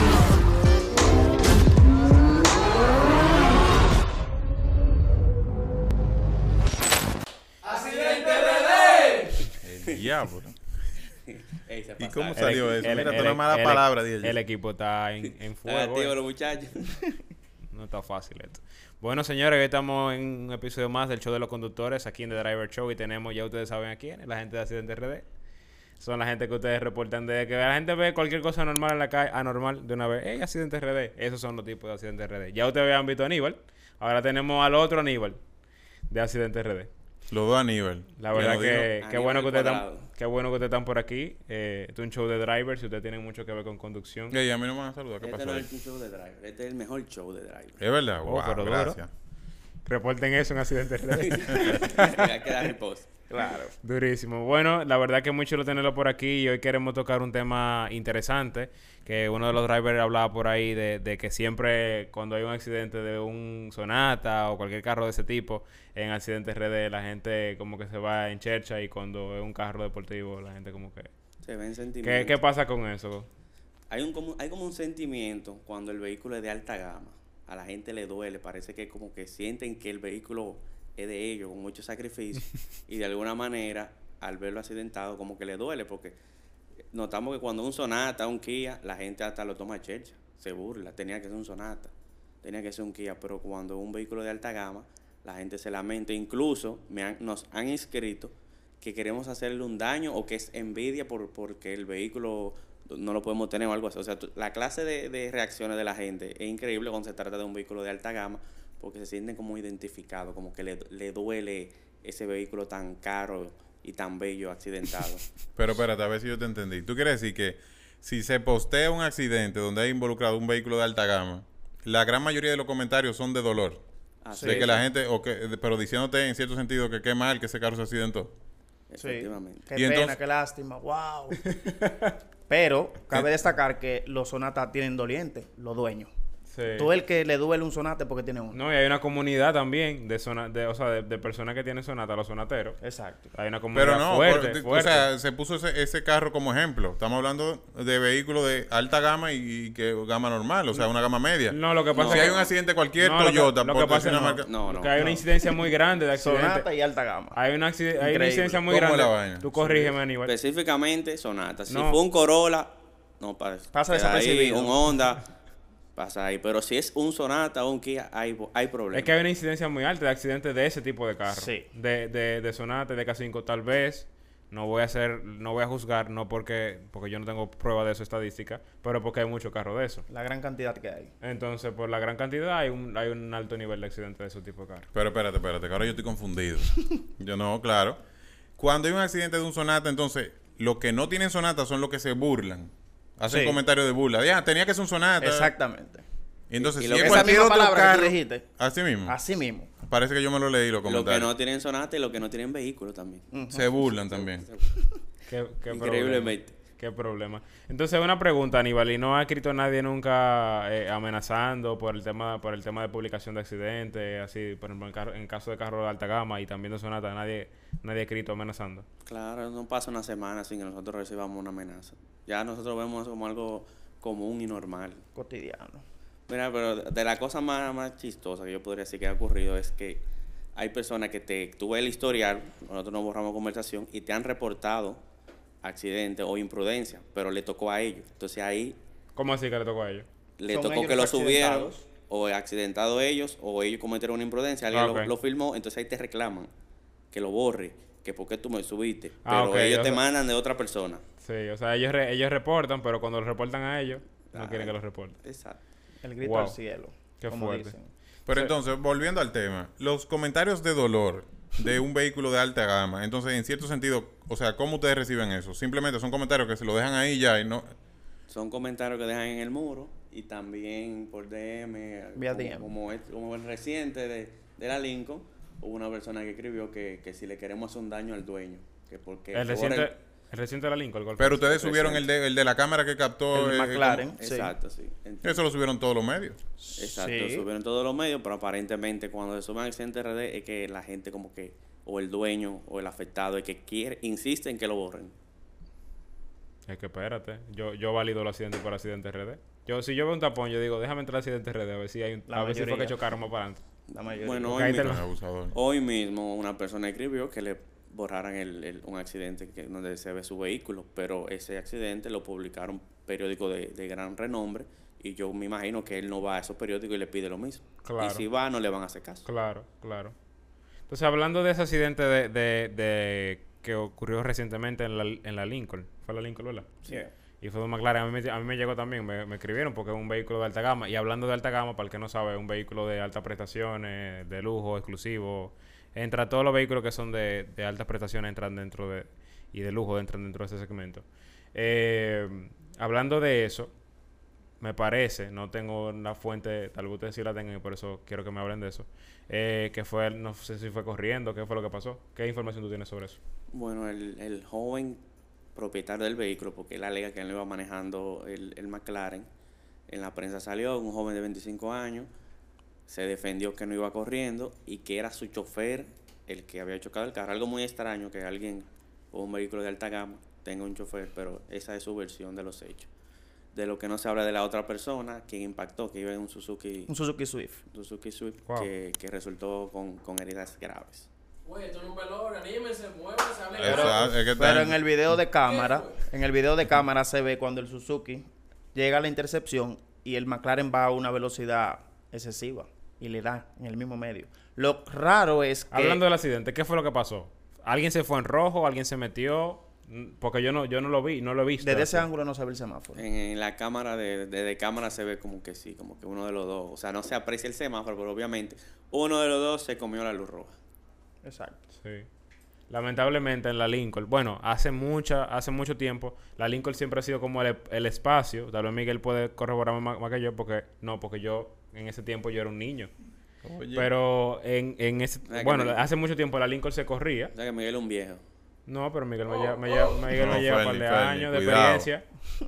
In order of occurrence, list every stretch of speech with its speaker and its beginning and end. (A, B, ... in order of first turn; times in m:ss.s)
0:07.6-0:09.3 A
0:07.9-0:08.7 B
0:09.5-0:10.7 C
0:11.2-0:13.2 B
0:12.0-0:14.4 C
0:12.4-0:16.1 D
0:15.2-0:17.0 B
0:17.7-0:25.2 D
0:26.0-0:35.4 D
0:36.1-0:36.9 D
0:37.3-0:38.9 C
0:38.2-0:44.4 D
0:38.3-0:40.1 B
0:44.3-0:45.7 C
0:45.2-0:47.8 B
0:47.8-0:49.1 C
0:48.2-0:49.0 D
0:49.8-0:52.2 D
0:51.2-0:53.1 B
0:53.3-0:53.7 E
0:53.8-1:11.1 D
1:11.4-1:12.4 B
1:12.0-1:13.3 D
1:13.9-1:26.2 B
1:26.9-1:55.3 B
1:55.6-2:03.8 C
2:04.2-2:04.8 B
2:04.3-2:04.7 E
2:04.4-2:08.3 C
2:08.9-2:09.6 B
2:09.0-2:11.5 E
2:09.7-2:10.2 C
2:11.5-2:12.1 D
2:12.5-2:16.1 E
2:16.5-2:16.9 D
2:16.7-2:18.6 E
2:18.5-2:22.8 D
2:22.8-2:23.3 E
2:23.3-2:25.1 D
2:23.7-2:34.5 C
2:31.5-2:32.4 D
2:31.9-2:32.5 B
2:33.0-2:36.6 D
2:34.4-2:35.0 B
2:35.0-2:35.2 E
2:36.1-2:37.4 E
2:37.3-2:40.3 D
2:37.9-2:38.6 E
2:38.7-2:39.5 C
2:39.6-2:45.2 B
2:41.7-2:42.0 D
2:43.7-2:44.8 E
2:46.0-2:49.1 B
2:48.9-3:00.0 D
2:51.3-2:51.7 E
3:00.1-3:01.1 E
3:01.2-3:04.9 D
3:04.9-3:08.0 C
3:08.6-3:15.5 C
3:13.3-3:13.6 E
3:15.2-3:16.0 E
3:16.5-3:19.2 C
3:16.6-3:17.4 B
3:17.0-3:18.4 E
3:19.1-3:19.7 E
3:19.8-3:21.3 C
3:20.8-3:23.2 B
3:23.3-3:23.6 E
3:23.5-3:24.4 C
3:23.8-3:24.7 B
3:25.3-3:38.8 D
3:25.7-3:26.5 B
3:39.0-3:45.0 B
3:45.1-3:45.8 E
3:46.3-3:50.0 B
3:50.5-3:55.0 B
3:55.6-3:58.8 B
3:59.2-4:00.0 D
4:00.4-4:06.5 B
4:00.5-4:01.8 E
4:04.7-4:05.1 D
4:07.1-4:11.0 B
4:09.2-4:10.0 D
4:11.2-4:15.2 D
4:14.3-4:15.6 B
4:16.0-4:17.9 E
4:16.2-4:16.6 D
4:17.2-4:17.7 D
4:18.2-4:27.7 C
4:28.3-4:39.9 B
4:32.2-4:32.7 E
4:39.3-4:41.4 D
4:41.2-4:44.1 C
4:41.4-4:42.0 B
4:43.3-4:44.5 E
4:44.2-4:45.4 B
4:45.2-4:46.4 C
4:46.6-4:47.5 E
4:46.8-4:55.1 B
4:56.7-5:03.6 D
5:02.3-5:03.0 E
5:03.9-5:04.6 E
5:04.0-5:05.0 B
5:04.5-5:05.0 D
5:04.6-5:05.5 C
5:05.5-5:19.2 B
5:17.8-5:18.2 D
5:19.2-5:20.1 D
5:20.9-5:43.7 D
5:44.6-5:53.2 D
5:53.5-5:55.0 B
5:55.5-5:59.3 B
5:59.9-6:02.1 B
6:02.9-6:12.9 B
6:13.5-6:16.9 B
6:16.9-6:17.6 E
6:17.7-6:21.1 B
6:21.4-6:24.2 A
6:23.5-6:24.8 C
6:23.6-6:36.0 E
6:25.4-6:26.0 A
6:35.7-6:42.0 D
6:41.6-6:43.0 E
6:43.0-6:50.5 B
6:51.2-6:51.6 E
6:51.7-6:52.1 D
6:52.7-7:02.9 D
7:03.4-7:03.9 C
7:03.7-7:07.3 D
7:05.3-7:05.8 B
7:07.3-7:08.2 B
7:08.6-7:12.0 D
7:09.3-7:10.0 A
7:10.1-7:11.9 C